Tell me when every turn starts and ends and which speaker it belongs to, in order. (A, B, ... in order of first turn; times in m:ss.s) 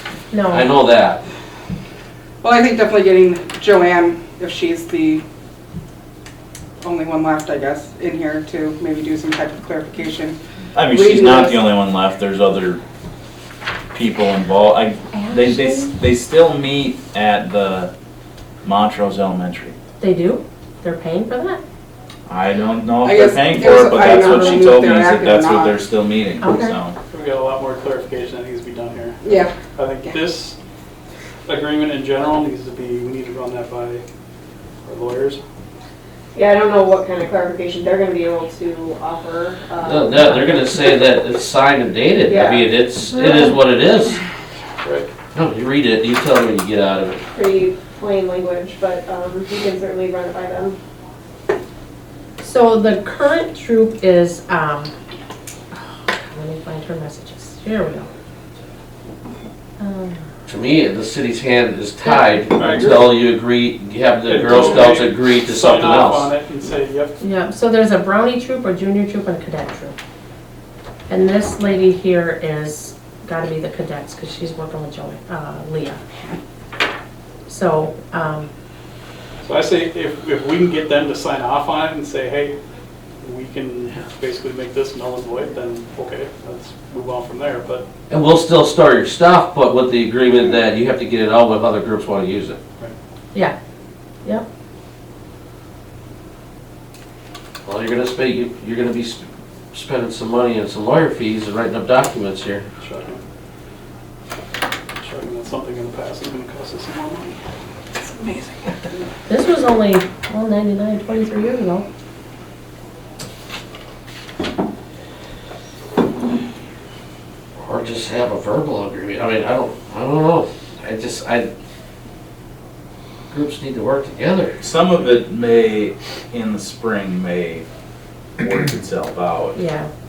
0:00.3-0:00.7 A
0:00.5-0:01.2 B
0:02.4-0:05.2 C
0:06.8-0:11.6 C
0:10.7-0:12.8 D
0:13.9-0:17.9 D
0:15.1-0:15.9 A
0:18.6-0:19.7 D
0:20.0-0:21.6 A
0:22.3-0:27.0 D
0:23.0-0:25.8 C
0:26.4-0:26.8 A
0:27.1-0:30.6 E
0:29.2-0:30.2 C
0:31.5-0:34.0 E
0:34.8-0:35.4 E
0:36.3-0:40.6 F
0:39.8-0:44.2 B
0:42.3-0:42.7 F
0:43.1-0:43.6 A
0:44.8-0:45.1 E
0:45.3-0:47.2 B
0:47.3-0:50.8 F
0:52.4-0:54.9 A
0:56.2-0:58.1 A
0:59.8-1:00.2 A
1:00.5-1:06.3 B
1:02.0-1:02.3 A
1:02.6-1:03.0 E
1:04.2-1:07.2 E
1:07.2-1:09.9 A
1:11.1-1:16.0 A
1:17.5-1:18.5 A
1:19.4-1:22.5 E
1:23.2-1:27.8 E
1:28.1-1:32.6 B
1:37.6-1:42.6 B
1:42.8-1:43.2 E
1:45.0-1:47.4 E
1:47.9-1:48.7 C
1:49.3-1:51.8 A
1:57.6-2:01.5 B
2:03.3-2:04.6 B
2:04.6-2:07.6 D
2:08.4-2:09.6 D
2:09.5-2:09.9 A